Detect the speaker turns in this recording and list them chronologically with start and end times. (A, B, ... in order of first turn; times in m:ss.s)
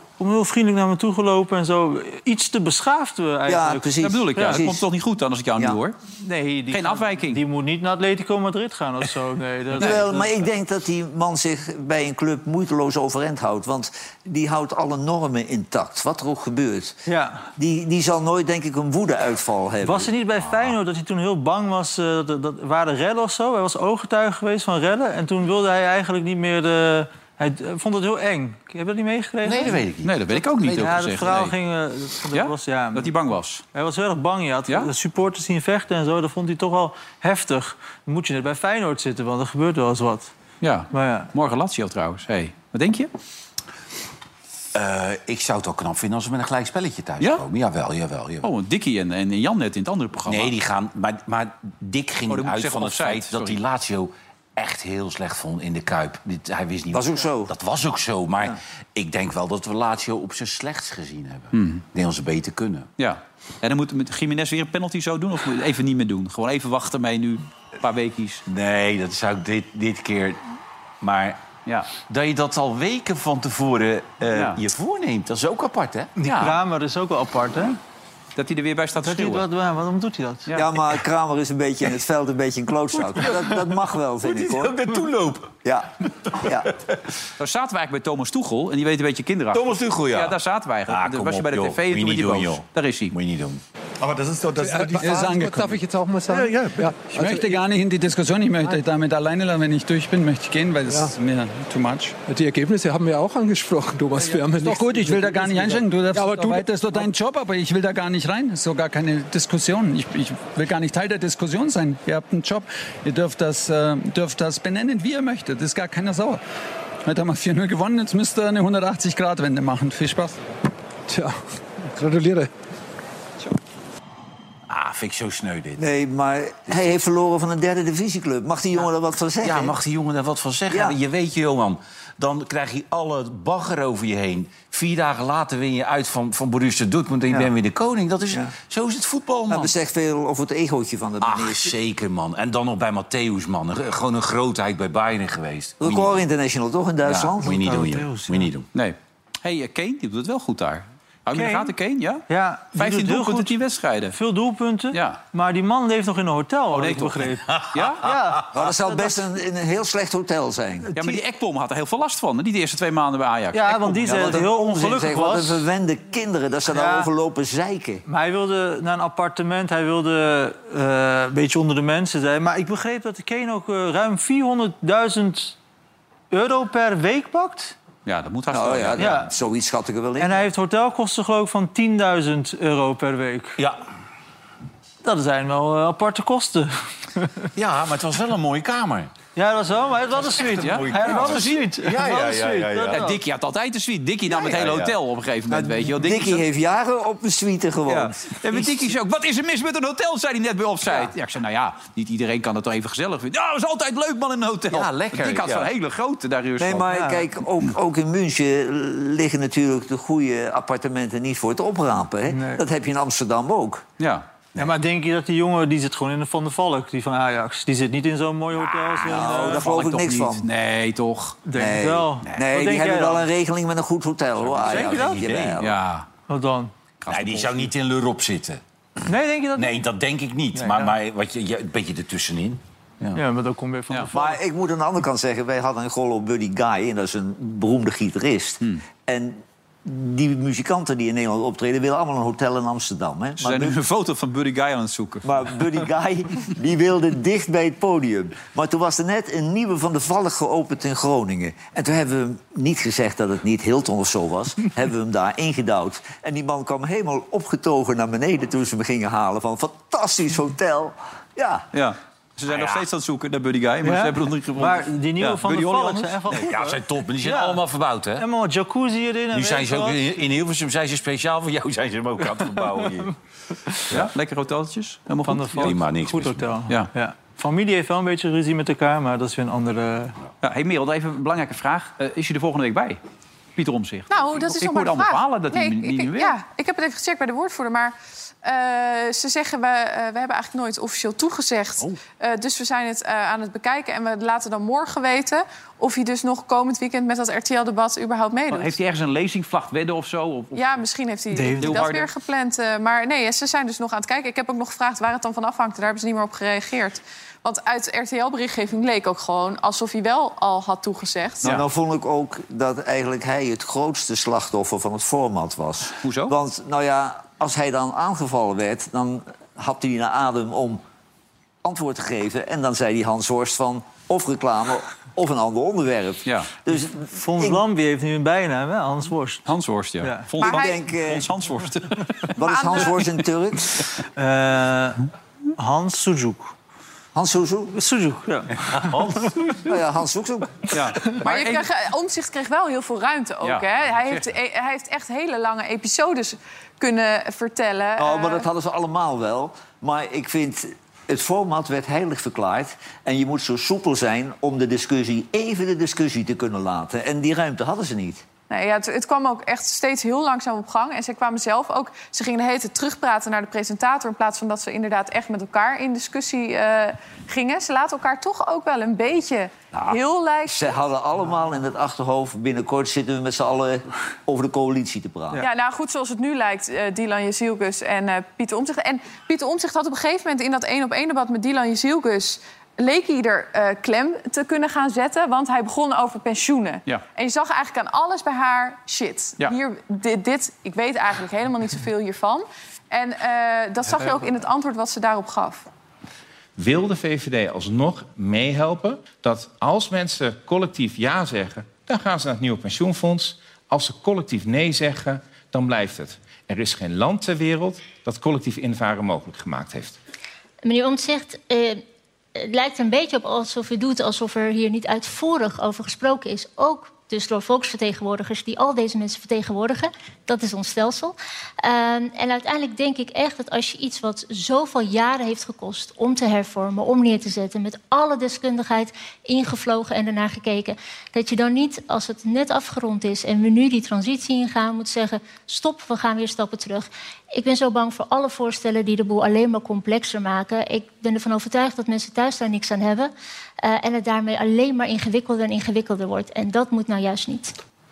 0:00.2-0:04.7 A
0:03.5-0:04.8 B
0:04.0-0:06.0 C
0:06.2-0:10.4 A
0:06.7-0:07.4 C
0:09.8-0:17.0 B
0:17.1-0:17.4 A
0:17.6-0:20.1 B
0:19.8-0:29.9 A
0:29.4-0:31.0 D
0:30.0-0:31.5 C
0:30.7-0:33.2 A
0:32.3-0:33.6 C
0:33.7-0:40.3 A
0:40.6-0:43.1 C
0:40.9-0:41.3 A
0:44.7-0:48.5 D
0:48.4-0:50.6 C
0:50.3-1:02.9 D
0:52.3-0:53.6 C
0:56.9-0:57.5 B
1:01.5-1:01.8 C
1:03.0-1:08.4 C
1:08.5-1:10.4 D
1:11.0-1:11.4 D
1:12.1-1:16.1 D
1:14.3-1:14.6 C
1:16.2-1:17.8 A
1:16.2-1:16.6 C
1:18.4-1:19.4 C
1:19.0-1:20.5 A
1:20.5-1:24.8 B
1:24.2-1:25.5 D
1:25.6-1:26.7 B
1:27.4-1:33.2 C
1:29.5-1:30.4 D
1:30.9-1:35.2 D
1:34.6-1:37.6 E
1:35.0-1:35.8 F
1:36.3-1:36.6 F
1:37.1-1:42.2 F
1:42.3-1:46.6 E
1:44.6-1:56.4 F
1:57.0-2:00.5 F
2:02.0-2:02.5 E
2:04.7-2:05.8 D
2:05.8-2:09.8 B
2:09.4-2:19.8 D
2:10.7-2:11.0 B
2:19.5-2:21.7 B
2:21.2-2:26.2 D
2:25.8-2:27.6 B
2:27.0-2:28.7 D
2:27.4-2:28.5 A
2:28.7-2:34.2 C
2:31.3-2:31.7 A
2:32.3-2:33.6 A
2:34.1-2:39.2 A
2:34.9-2:35.2 C
2:36.7-2:37.2 C
2:37.5-2:37.8 D
2:37.7-2:38.0 C
2:38.5-2:40.9 B
2:40.9-2:41.2 A
2:41.0-2:44.4 C
2:43.5-2:45.7 A
2:44.1-2:48.0 B
2:46.7-2:47.1 A
2:48.1-2:55.6 A
2:56.3-2:57.8 A
2:58.0-2:59.0 C
2:58.5-3:00.4 B
2:59.0-2:59.3 A
3:00.2-3:03.6 A
3:05.0-3:07.4 A
3:07.6-3:09.1 D
3:09.4-3:13.2 A
3:10.2-3:13.0 D
3:10.6-3:11.7 C
3:12.9-3:16.4 C
3:14.4-3:15.0 D
3:15.5-3:18.6 B
3:17.9-3:26.9 C
3:24.7-3:25.7 D
3:26.6-3:33.8 B
3:26.9-3:27.3 A
3:32.3-3:32.6 A
3:34.0-3:34.2 C
3:34.6-3:39.7 A
3:39.0-3:40.5 B
3:39.3-3:41.4 C
3:41.4-3:43.3 A
3:41.6-3:45.7 B
3:44.5-3:45.6 D
3:44.7-3:45.3 A
3:45.6-3:46.1 C
3:46.3-3:46.7 A
3:47.0-3:47.7 C
3:47.1-3:48.6 D
3:49.1-3:49.8 A
3:49.6-3:53.2 D
3:50.5-3:51.0 A
3:53.1-3:54.4 A
3:54.1-4:03.8 B
4:03.4-4:05.5 C
4:05.2-4:21.7 B
4:21.7-4:26.2 C
4:22.5-4:22.9 D
4:23.8-4:27.6 A
4:26.3-4:28.3 D
4:28.2-4:30.1 A
4:29.3-4:33.1 D
4:32.6-4:32.8 A
4:33.9-4:35.8 C
4:35.2-4:40.2 A
4:35.6-4:36.6 D
4:40.4-4:43.0 C
4:43.6-4:46.4 C
4:44.1-4:58.8 G
4:58.5-5:00.9 C
5:00.6-5:11.5 G
5:01.3-5:01.8 A
5:01.6-5:02.1 C
5:11.4-5:20.8 B
5:16.0-5:16.3 C
5:21.6-5:27.6 B
5:27.0-5:29.5 A
5:29.5-5:32.3 C
5:30.0-5:30.3 A
5:30.4-5:30.8 G
5:30.4-5:31.3 B
5:32.4-5:33.9 B
5:32.4-5:32.9 G
5:34.2-5:35.0 A
5:35.6-5:36.5 A
5:37.1-5:37.8 B
5:37.7-5:39.2 A
5:38.7-5:39.7 D
5:39.7-5:40.8 B
5:40.7-5:41.7 C
5:41.2-5:48.5 G
5:43.4-5:44.3 C
5:48.0-5:58.2 B
5:58.5-6:10.8 G
6:10.5-6:15.4 B
6:15.4-6:35.7 G
6:36.6-6:50.0 H
6:50.6-6:51.8 I
6:52.4-7:27.5 I